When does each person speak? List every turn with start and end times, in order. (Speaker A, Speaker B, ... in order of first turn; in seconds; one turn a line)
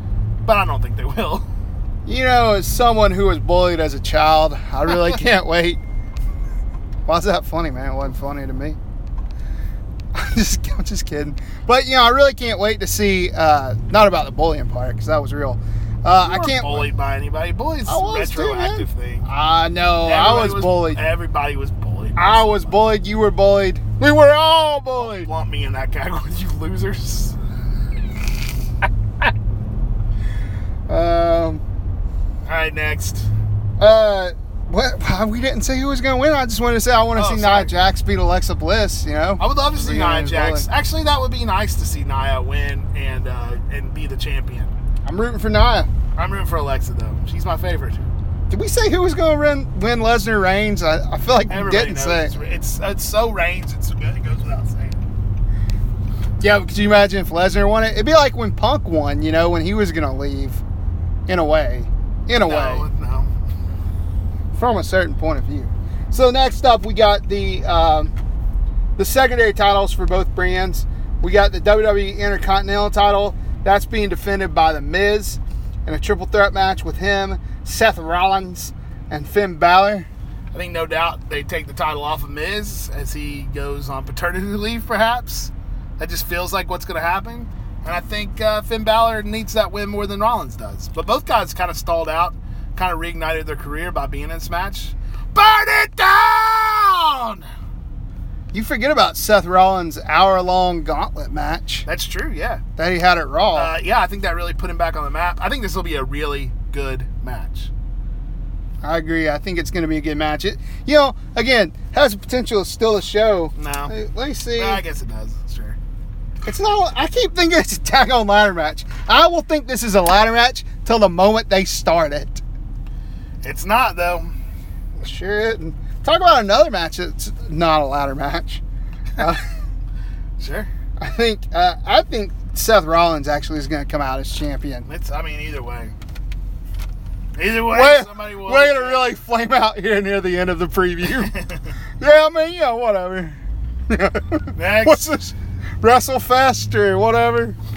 Speaker A: 0.4-1.5
Speaker B: 2.0-5.8
Speaker B: 7.1-8.8
Speaker B: 10.1-16.9
Speaker A: 16.1-19.3
Speaker B: 17.9-21.0
Speaker A: 20.0-22.8
Speaker B: 22.2-25.3
Speaker A: 25.0-27.4
Speaker B: 30.9-31.6
Speaker A: 32.4-33.3
Speaker B: 33.8-40.7
Speaker A: 37.1-37.7
Speaker A: 39.4-44.7
Speaker B: 45.0-45.9
Speaker A: 46.1-48.0
Speaker B: 48.5-52.4
Speaker A: 51.5-55.0
Speaker B: 56.4-60.6
Speaker B: 61.3-62.9
Speaker A: 62.4-63.3
Speaker B: 64.5-68.1
Speaker B: 69.0-80.1
Speaker A: 80.5-97.5
Speaker B: 98.5-101.8
Speaker A: 101.8-102.6
Speaker B: 102.8-103.7
Speaker A: 103.5-107.7
Speaker B: 108.8-114.8
Speaker A: 113.5-114.0
Speaker A: 114.5-115.8
Speaker B: 116.4-122.4
Speaker A: 123.4-124.3
Speaker B: 125.0-128.6
Speaker B: 129.2-129.4
Speaker A: 130.4-130.7
Speaker B: 131.0-134.9
Speaker A: 134.8-135.9
Speaker A: 137.3-139.1
Speaker B: 137.7-141.3
Speaker A: 141.2-141.7
Speaker B: 142.0-147.6
Speaker A: 144.5-145.2